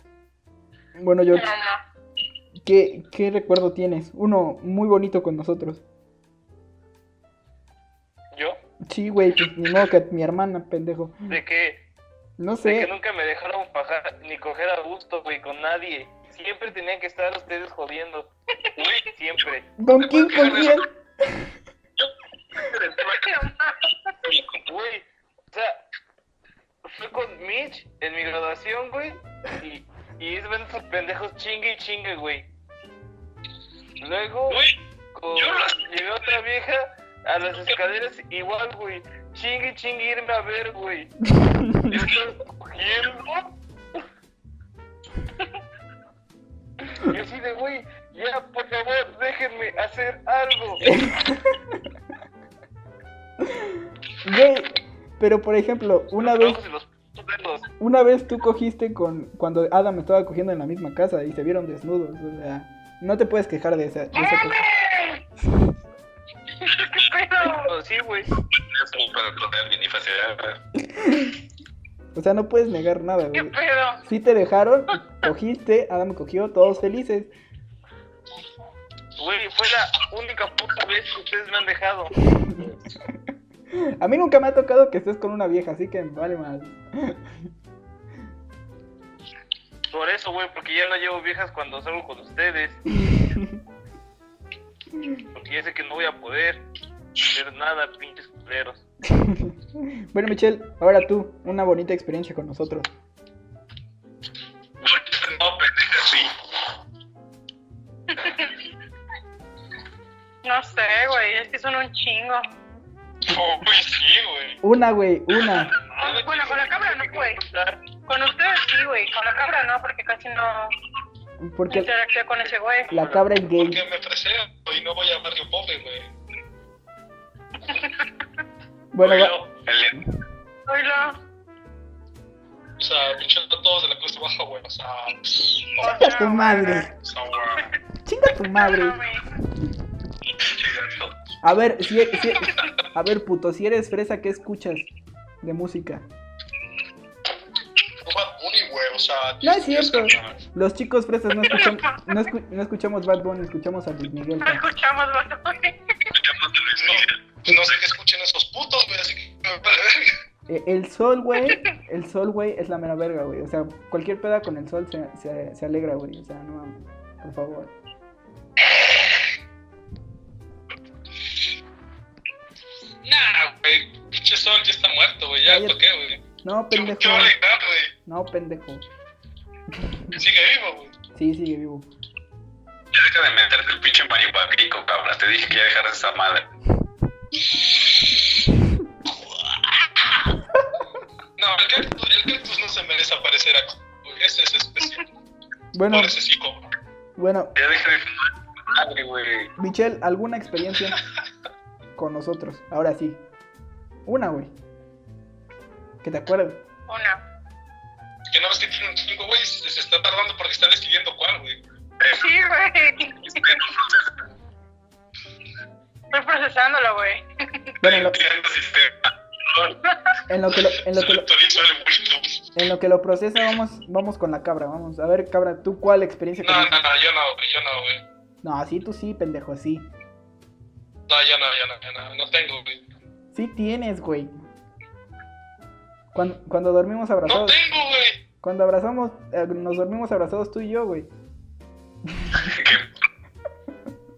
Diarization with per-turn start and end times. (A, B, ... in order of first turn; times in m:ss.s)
0:01.0-0:01.5 A
0:01.3-0:01.8 B
0:02.6-0:05.8 A
0:08.3-0:08.6 C
0:08.9-0:11.2 A
0:11.3-0:11.8 C
0:12.4-0:12.9 A
0:12.6-0:18.3 C
0:18.8-0:19.0 D
0:19.1-0:19.7 C
0:19.8-0:21.5 A
0:20.0-0:20.8 D
0:22.0-0:23.1 D
0:23.0-0:24.1 B
0:24.2-0:24.6 D
0:24.6-0:25.8 C
0:26.9-0:32.4 C
0:34.0-0:41.1 C
0:34.5-0:34.8 D
0:35.3-0:35.8 D
0:41.4-0:41.9 A
0:41.8-0:43.5 C
0:41.9-0:42.2 D
0:47.0-0:50.8 C
0:50.8-0:51.8 A
0:53.4-0:56.6 A
0:56.2-0:57.7 C
0:57.8-1:04.6 A
1:04.1-1:05.2 B
1:06.6-1:07.7 B
1:06.7-1:07.0 D
1:07.5-1:08.3 C
1:08.5-1:10.6 D
1:10.8-1:11.4 A
1:12.1-1:17.3 A
1:13.3-1:14.0 B
1:19.2-1:22.1 C
1:22.3-1:22.7 A
1:23.7-1:27.2 A
1:29.9-1:32.8 C
1:33.0-1:33.6 A
1:35.3-1:36.6 C
1:37.3-1:38.8 C
1:39.1-1:42.9 A
1:44.8-1:46.3 D
1:48.1-1:48.6 B
1:50.4-1:52.5 B
1:53.2-1:54.6 E
1:54.6-1:55.7 A
1:55.5-1:56.9 E
1:56.0-1:57.4 B
1:56.5-1:57.8 C
1:58.0-2:00.7 B
2:01.4-2:01.9 A
2:01.7-2:02.9 B
2:02.9-2:03.8 A
2:03.5-2:06.1 E
2:07.7-2:08.1 B
2:08.9-2:09.3 A
2:09.0-2:10.0 D
2:10.7-2:11.2 B
2:12.8-2:16.1 E
2:15.8-2:16.9 B
2:15.8-2:16.9 A
2:17.0-2:17.7 E
2:18.0-2:19.0 A
2:18.5-2:19.2 B
2:20.4-2:21.2 D
2:21.4-2:24.9 A
2:22.4-2:22.7 B
2:25.4-2:26.0 A
2:28.0-2:30.2 E
2:29.4-2:34.6 A
2:30.0-2:30.3 D
2:31.5-2:32.1 B
2:34.4-2:36.1 B
2:36.1-2:37.1 D
2:36.8-2:40.1 E
2:40.5-2:47.7 A
2:53.0-2:57.9 E
2:55.4-2:55.8 A
2:56.4-2:57.3 A
2:58.0-2:58.8 A
2:59.8-3:00.2 A
3:00.1-3:00.9 E
3:01.1-3:01.9 A
3:02.9-3:06.5 D
3:11.4-3:15.0 E
3:15.7-3:16.1 A
3:15.9-3:16.7 E
3:17.2-3:17.5 A
3:17.5-3:19.5 D
3:19.6-3:21.0 A
3:22.0-3:23.2 A
3:24.0-3:24.5 A
3:26.0-3:26.6 A
3:26.9-3:27.2 B
3:28.3-3:31.6 E
3:32.0-3:32.3 D
3:32.1-3:33.6 B
3:33.2-3:34.1 D
3:36.1-3:37.7 B
3:37.8-3:38.2 A
3:37.8-3:39.8 D
3:40.3-3:41.3 A
3:40.8-3:42.4 E
3:42.6-3:46.8 A
3:46.4-3:48.0 E
3:48.4-3:49.9 A
3:51.1-3:52.8 E
3:53.3-3:54.3 A
3:56.1-3:57.6 A
3:57.2-3:58.2 E
3:58.4-4:01.1 A
4:02.1-4:02.5 A
4:02.3-4:02.9 D